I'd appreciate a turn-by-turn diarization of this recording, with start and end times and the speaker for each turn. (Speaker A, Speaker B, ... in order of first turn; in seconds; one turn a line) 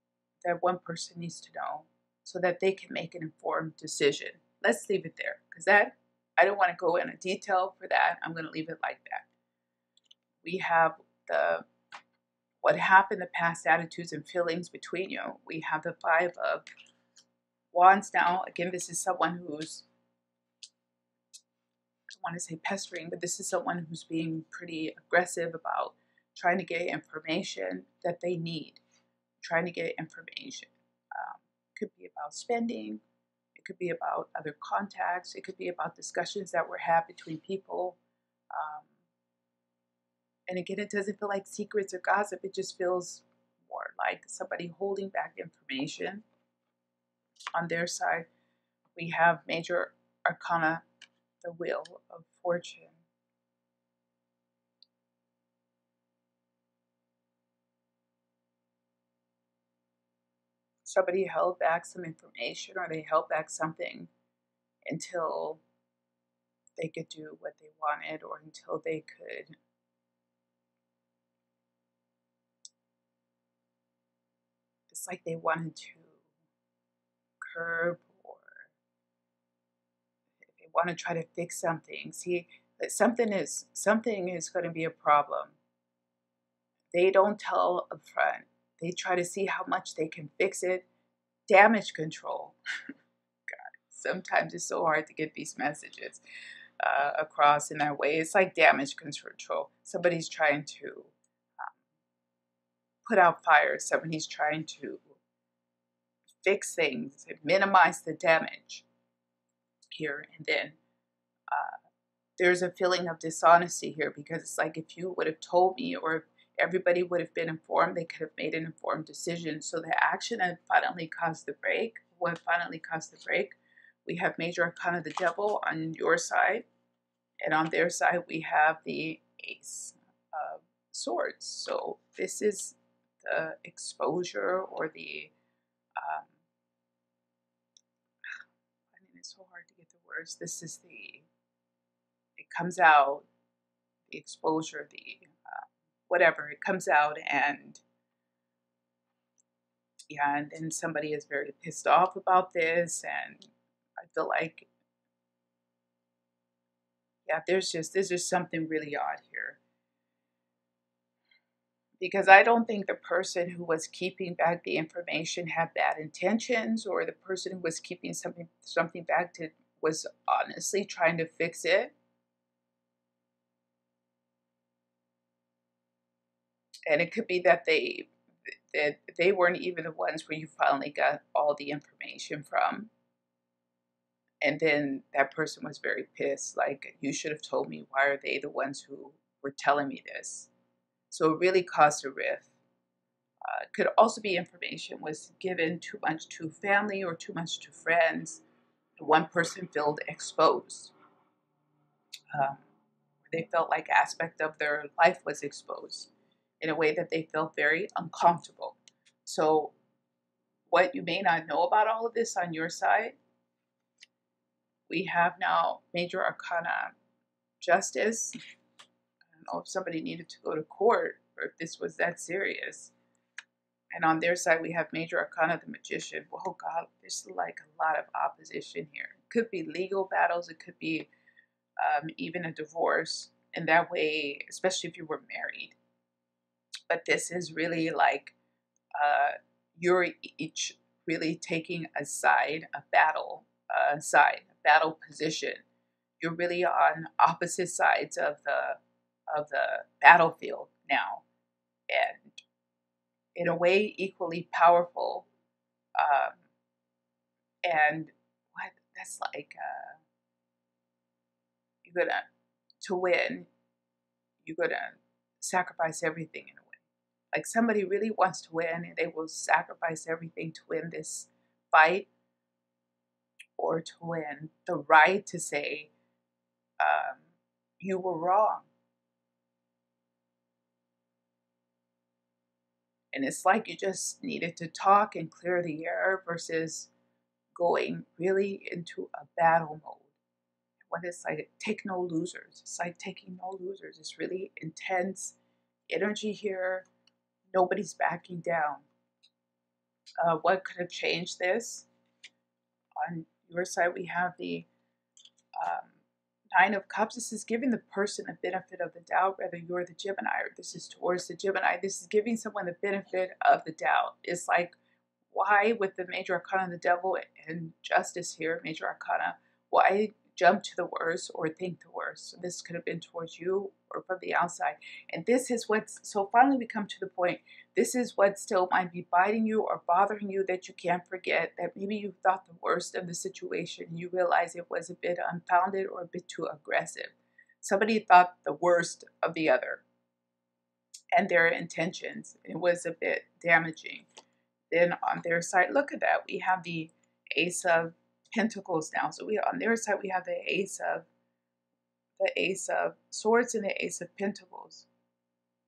Speaker A: 0.4-9.3
Speaker A: 10.4-11.7
Speaker A: 12.6-16.6
Speaker A: 17.7-19.9
Speaker A: 22.1-28.8
Speaker A: 29.4-33.0
Speaker A: 33.5-38.0
Speaker A: 38.5-38.9
Speaker A: 40.5-46.2
Speaker A: 47.5-48.3
Speaker A: 49.0-50.8
Speaker A: 51.4-53.0
Speaker A: 60.8-64.1
Speaker A: 64.8-65.6
Speaker A: 66.8-69.5
Speaker A: 74.9-76.2
Speaker A: 77.4-78.7
Speaker A: 80.5-85.6
Speaker A: 86.9-90.9
Speaker A: 91.5-92.5
Speaker A: 93.5-96.2
Speaker A: 96.8-101.8
Speaker A: 103.0-105.1
Speaker A: 106.4-108.8
Speaker A: 109.9-110.8
Speaker A: 111.5-111.8
Speaker A: 112.4-126.7
Speaker A: 127.4-135.3
Speaker A: 135.9-136.3
Speaker A: 138.9-141.3
Speaker A: 142.3-143.3
Speaker A: 144.1-147.8
Speaker A: 150.1-154.7
Speaker A: 157.2-159.6
Speaker A: 162.0-171.9
Speaker A: 176.8-178.1
Speaker A: 178.7-182.9
Speaker A: 184.4-190.5
Speaker A: 191.1-192.5
Speaker A: 193.4-198.4
Speaker A: 199.0-200.9
Speaker A: 202.3-202.6
Speaker A: 203.3-206.1
Speaker A: 206.6-209.7
Speaker A: 210.7-213.2
Speaker A: 214.9-216.9
Speaker A: 217.6-218.3
Speaker A: 219.3-222.9
Speaker A: 223.9-231.1
Speaker A: 231.8-235.8
Speaker A: 236.9-238.3
Speaker A: 238.9-245.6
Speaker A: 246.2-251.2
Speaker A: 251.9-252.4
Speaker A: 253.3-255.3
Speaker A: 255.9-256.4
Speaker A: 257.6-260.0
Speaker A: 261.8-262.2
Speaker A: 262.8-263.5
Speaker A: 264.4-272.1
Speaker A: 273.6-275.9
Speaker A: 276.8-277.2
Speaker A: 277.8-278.7
Speaker A: 283.1-286.9
Speaker A: 287.5-290.1
Speaker A: 290.9-295.4
Speaker A: 295.9-296.9
Speaker A: 297.5-298.9
Speaker A: 300.2-301.9
Speaker A: 303.0-304.7
Speaker A: 305.6-306.0
Speaker A: 306.5-314.8
Speaker A: 315.3-339.8
Speaker A: 341.1-344.1
Speaker A: 344.7-351.1
Speaker A: 352.2-354.9